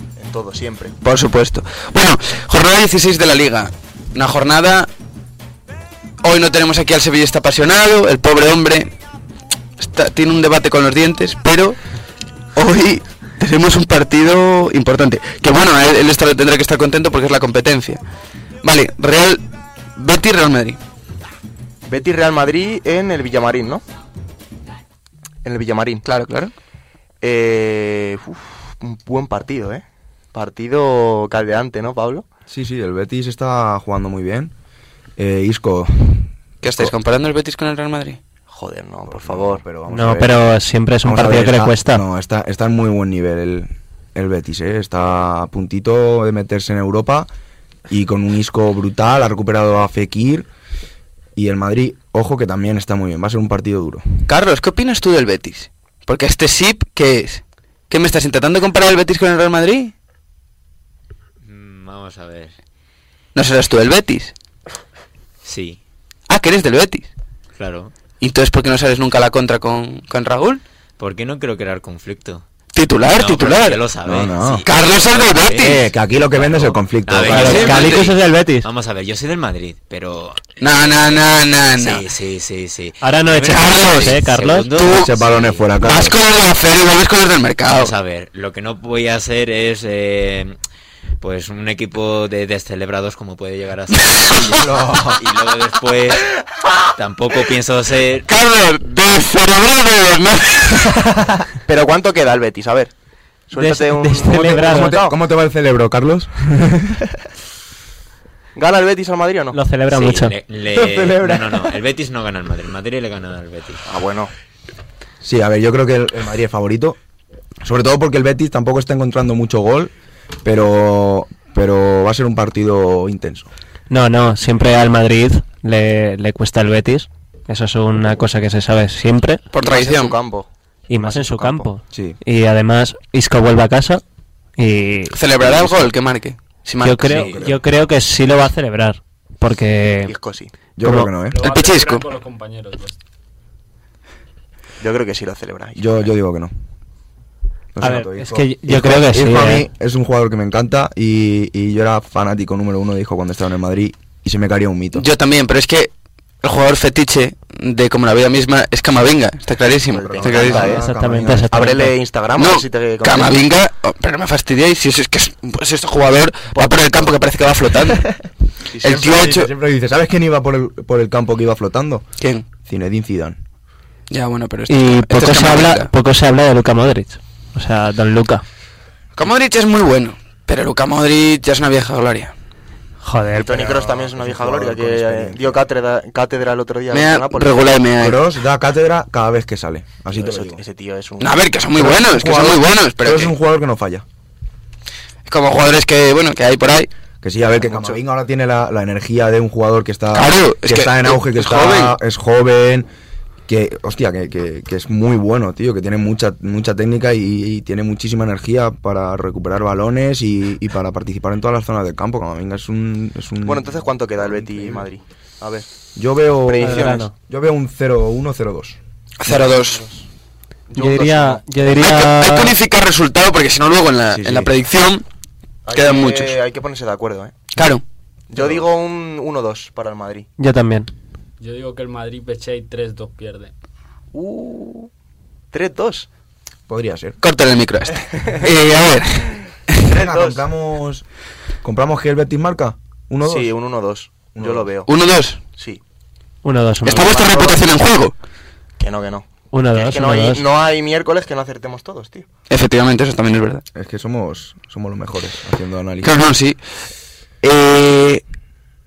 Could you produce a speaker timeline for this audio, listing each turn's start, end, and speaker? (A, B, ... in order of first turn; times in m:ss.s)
0:00.2-0:01.0 A
0:01.0-0:04.9 B
0:06.2-0:08.9 B
0:09.8-0:11.8 B
0:12.6-0:18.0 B
0:18.6-0:19.4 B
0:20.0-0:20.8 B
0:21.9-0:23.8 A
0:25.4-0:26.0 A
0:26.0-0:26.5 B
0:27.2-0:32.2 A
0:32.5-0:34.5 C
0:35.2-0:36.9 C
0:36.6-0:38.2 B
0:38.5-0:39.7 A
0:39.0-0:40.4 C
0:39.9-0:42.0 D
0:41.0-0:47.3 C
0:47.9-0:50.5 C
0:51.4-0:54.0 C
0:54.3-0:59.9 B
1:01.4-1:02.5 E
1:03.4-1:04.3 B
1:05.4-1:05.8 E
1:06.3-1:07.1 B
1:07.6-1:07.9 E
1:08.2-1:10.6 B
1:11.0-1:12.4 E
1:12.7-1:13.8 B
1:13.1-1:21.0 E
1:14.0-1:14.6 C
1:14.6-1:15.7 B
1:15.6-1:17.8 C
1:17.2-1:18.7 D
1:17.3-1:18.1 B
1:20.6-1:22.0 B
1:21.8-1:25.7 E
1:23.0-1:24.7 D
1:23.5-1:24.2 B
1:24.7-1:25.1 B
1:24.8-1:26.2 C
1:25.8-1:27.9 B
1:27.7-1:30.6 E
1:31.2-1:36.3 E
1:34.1-1:34.5 B
1:34.5-1:35.2 C
1:37.0-1:38.3 E
1:38.3-1:41.0 B
1:41.7-1:42.9 A
1:43.5-1:45.2 A
1:43.6-1:45.0 D
1:44.3-1:47.2 C
1:48.6-1:49.6 A
1:49.5-1:50.4 D
1:49.9-1:53.8 E
1:50.7-1:51.8 C
1:53.9-1:54.3 A
1:55.2-1:57.0 C
1:57.6-1:59.9 C
2:00.4-2:03.5 C
2:03.9-2:09.5 D
2:09.5-2:10.2 B
2:09.6-2:11.6 A
2:10.9-2:14.0 D
2:11.9-2:12.2 C
2:14.6-2:15.2 D
2:15.1-2:17.3 B
2:15.4-2:15.9 C
2:16.8-2:20.1 D
2:17.1-2:17.6 C
2:17.1-2:17.5 E
2:20.0-2:20.5 A
2:20.8-2:21.4 C
2:20.8-2:21.1 D
2:21.3-2:23.0 F
2:21.4-2:22.0 B
2:24.8-2:26.1 A
2:25.8-2:26.5 C
2:27.7-2:35.0 C
2:27.8-2:29.7 D
2:34.9-2:35.9 B
2:36.4-2:40.8 B
2:39.9-2:40.9 A
2:39.9-2:41.7 C
2:40.5-2:42.0 D
2:41.5-2:43.5 A
2:42.4-2:48.1 B
2:46.5-2:47.2 A
2:48.7-2:49.2 A
2:48.8-2:49.5 B
2:48.8-2:52.0 C
2:52.2-2:52.4 B
2:52.6-2:53.4 C
2:54.1-2:55.9 B
2:54.7-2:58.4 D
2:59.2-3:02.3 B
3:03.0-3:03.6 D
3:03.3-3:07.8 A
3:03.5-3:05.6 C
3:06.9-3:08.2 B
3:08.0-3:10.6 C
3:10.1-3:11.4 A
3:11.2-3:13.3 B
3:11.8-3:14.0 C
3:15.3-3:16.9 B
3:17.2-3:22.9 C
3:17.6-3:18.0 A
3:20.1-3:22.0 B
3:23.5-3:34.9 C
3:33.5-3:35.7 A
3:36.0-3:38.8 C
3:36.4-3:37.1 A
3:36.6-3:37.1 D
3:39.2-3:39.8 B
3:39.3-3:40.1 A
3:40.7-3:41.5 A
3:40.8-3:42.6 D
3:41.7-3:45.1 B
3:44.1-3:44.5 C
3:45.6-3:47.3 A
3:45.7-3:46.4 B
3:47.6-3:47.8 B
3:48.3-3:50.3 A
3:48.3-3:48.6 C
3:50.4-3:50.9 D
3:51.4-3:53.5 F
3:54.1-3:54.9 A
3:55.5-3:56.1 A
3:56.7-3:57.2 C
3:57.2-3:59.8 B
3:58.3-3:58.7 A
3:59.9-4:00.4 A
3:59.9-4:01.0 C
4:01.6-4:03.6 C
4:03.2-4:04.9 A
4:04.4-4:04.7 C
4:04.9-4:05.4 B
4:05.6-4:05.8 A
4:06.4-4:07.2 D
4:06.8-4:08.2 B
4:06.9-4:07.7 A
4:08.8-4:12.3 A
4:09.5-4:10.4 D
4:12.5-4:13.6 B
4:13.7-4:16.2 C
4:16.0-4:16.6 B
4:17.4-4:18.2 B